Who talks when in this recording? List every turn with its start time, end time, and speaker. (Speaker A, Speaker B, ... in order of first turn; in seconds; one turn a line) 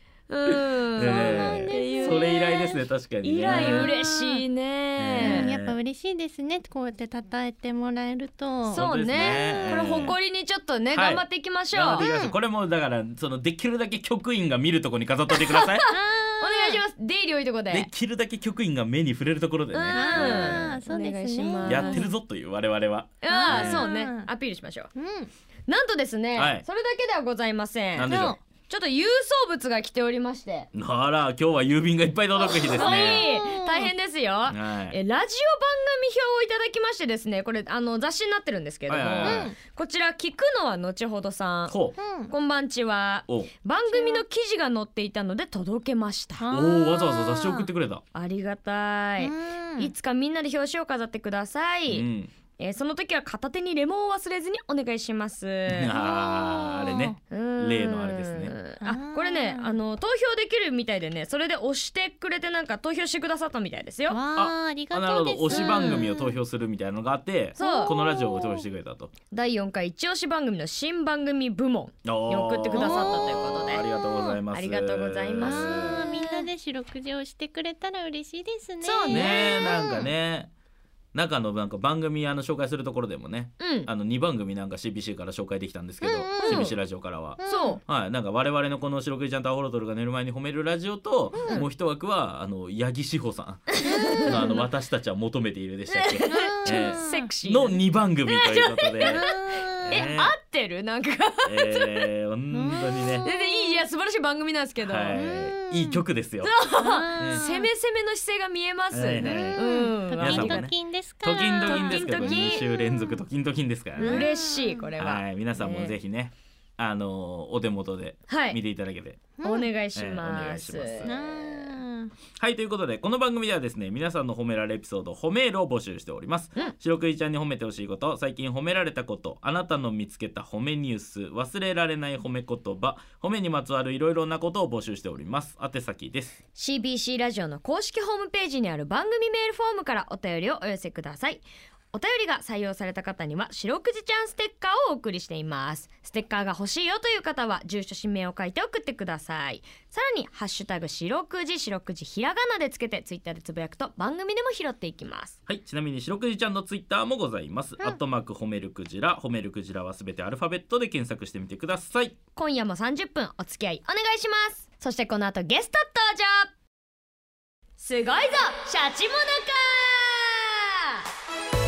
Speaker A: 0.3-2.6
Speaker B: 1.0-2.8
Speaker C: 1.0-3.9
Speaker A: 3.2-5.5
Speaker B: 3.5-4.4
Speaker C: 5.0-5.8
Speaker B: 5.2-8.8
Speaker A: 8.7-12.1
Speaker C: 8.7-10.2
Speaker B: 9.7-10.1
Speaker C: 10.9-15.9
Speaker B: 12.0-12.3
Speaker A: 15.6-17.9
Speaker B: 15.9-16.8
Speaker C: 17.7-20.8
Speaker A: 19.7-22.1
Speaker B: 19.9-22.1
Speaker C: 21.6-23.8
Speaker A: 23.2-24.9
Speaker B: 23.3-24.3
Speaker B: 24.9-25.3
Speaker A: 25.7-30.7
Speaker C: 26.4-26.6
Speaker C: 27.9-28.4
Speaker B: 28.1-28.4
Speaker C: 30.7-33.3
Speaker A: 32.4-41.8
Speaker B: 32.6-33.9
Speaker C: 34.5-35.0
Speaker C: 38.9-39.5
Speaker B: 39.2-39.6
Speaker C: 41.7-42.0
Speaker B: 42.0-42.3
Speaker A: 42.3-46.4
Speaker B: 43.9-44.2
Speaker B: 46.4-47.7
Speaker C: 46.5-48.0
Speaker A: 48.1-52.1
Speaker B: 49.2-49.9
Speaker C: 51.9-52.3
Speaker A: 52.6-55.9
Speaker C: 55.7-58.5
Speaker B: 55.9-57.2
Speaker A: 57.3-64.2
Speaker B: 58.8-59.7
Speaker B: 64.1-66.4
Speaker C: 64.4-69.1
Speaker A: 65.6-65.9
Speaker A: 67.6-67.9
Speaker B: 67.6-68.7
Speaker A: 69.3-73.8
Speaker C: 72.0-76.0
Speaker B: 72.8-73.5
Speaker B: 74.1-74.4
Speaker A: 74.5-76.5
Speaker B: 75.4-79.8
Speaker A: 78.8-80.0
Speaker C: 79.1-80.5
Speaker C: 81.1-93.7
Speaker A: 83.6-83.9
Speaker B: 86.0-86.7
Speaker A: 86.4-86.7
Speaker B: 87.4-87.8
Speaker A: 87.5-87.8
Speaker A: 93.7-94.6
Speaker B: 93.9-94.5
Speaker C: 94.2-99.2
Speaker A: 95.9-99.3
Speaker B: 96.3-97.3
Speaker B: 99.0-100.1
Speaker C: 99.8-100.3
Speaker A: 99.9-102.1
Speaker C: 101.5-103.3
Speaker B: 102.5-103.8
Speaker A: 103.2-105.2
Speaker C: 104.8-106.5
Speaker B: 105.2-106.0
Speaker A: 106.4-110.7
Speaker B: 106.8-107.7
Speaker C: 107.2-107.4
Speaker C: 108.9-114.3
Speaker B: 109.2-113.2
Speaker A: 111.4-112.6
Speaker A: 114.0-116.0
Speaker B: 114.0-114.9
Speaker C: 115.0-119.2
Speaker A: 118.3-118.6
Speaker B: 119.4-119.7
Speaker A: 119.4-121.7
Speaker C: 119.9-121.1
Speaker B: 121.0-122.1
Speaker C: 122.4-136.4
Speaker A: 136.6-155.4
Speaker C: 155.5-162.2
Speaker A: 162.3-166.5
Speaker A: 167.8-171.0